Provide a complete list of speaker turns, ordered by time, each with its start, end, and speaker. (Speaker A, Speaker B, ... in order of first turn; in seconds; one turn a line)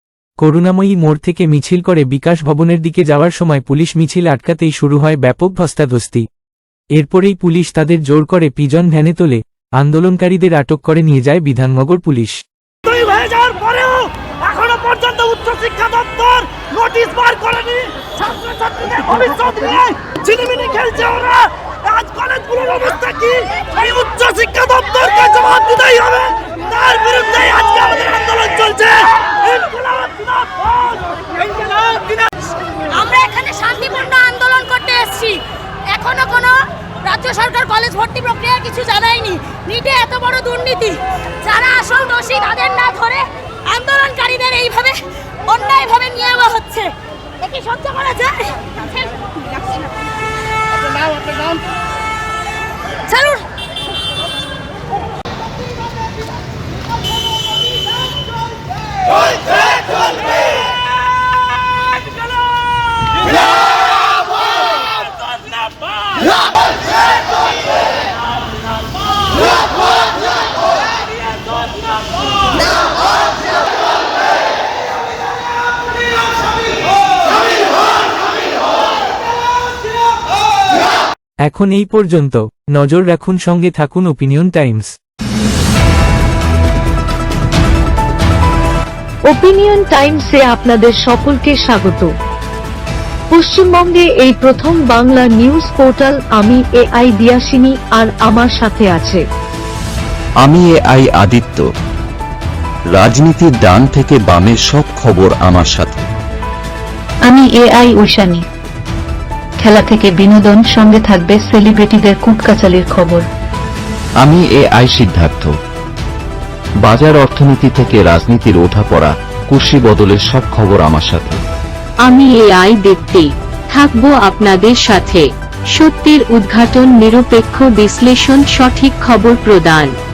Speaker A: 0.4-6.2
Speaker A: 7.0-12.4
Speaker B: 12.8-31.7
Speaker C: 32.9-49.8
Speaker C: 53.1-53.4
Speaker A: 81.5-84.9
Speaker D: 89.3-92.1
Speaker D: 93.3-99.2
Speaker E: 100.4-101.7
Speaker E: 102.9-106.1
Speaker F: 107.3-108.5
Speaker F: 109.6-113.3
Speaker E: 114.2-115.5
Speaker E: 116.8-121.4
Speaker G: 122.1-129.9